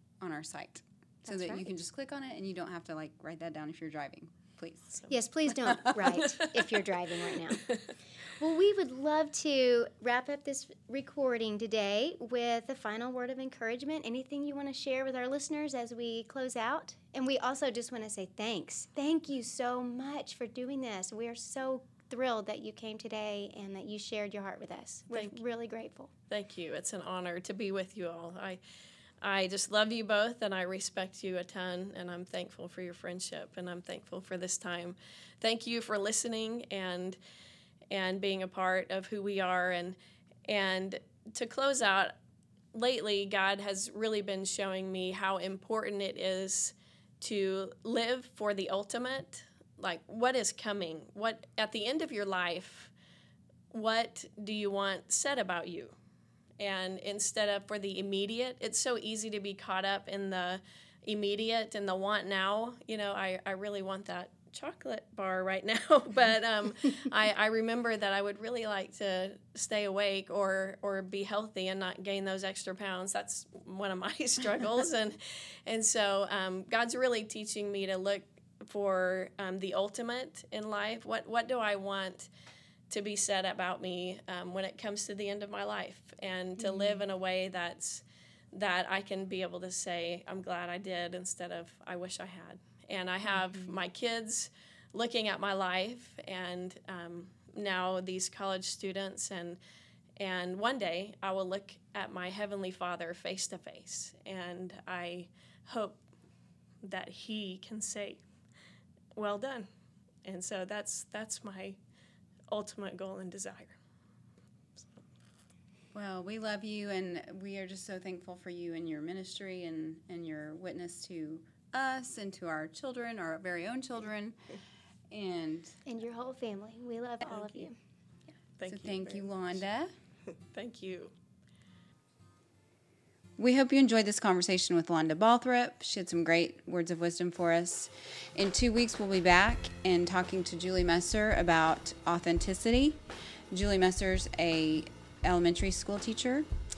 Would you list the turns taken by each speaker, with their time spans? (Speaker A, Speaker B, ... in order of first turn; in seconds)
Speaker A: 0.2-5.0, 115.9-124.4, 125.1-125.7, 128.7-129.9, 133.4-143.0, 143.5-146.5
Speaker B: 1.2-1.6, 5.1-7.7, 8.4-26.1, 125.8-127.8
Speaker C: 25.1-25.4, 26.3-28.6, 29.2-37.2, 37.9-42.1, 42.7-52.9, 53.7-55.9, 56.6-82.3, 82.9-99.6, 100.2-106.0, 106.8-108.2, 109.2-109.7, 110.2-111.8, 112.5-113.8, 127.2-127.6, 128.6-129.4, 130.4-131.1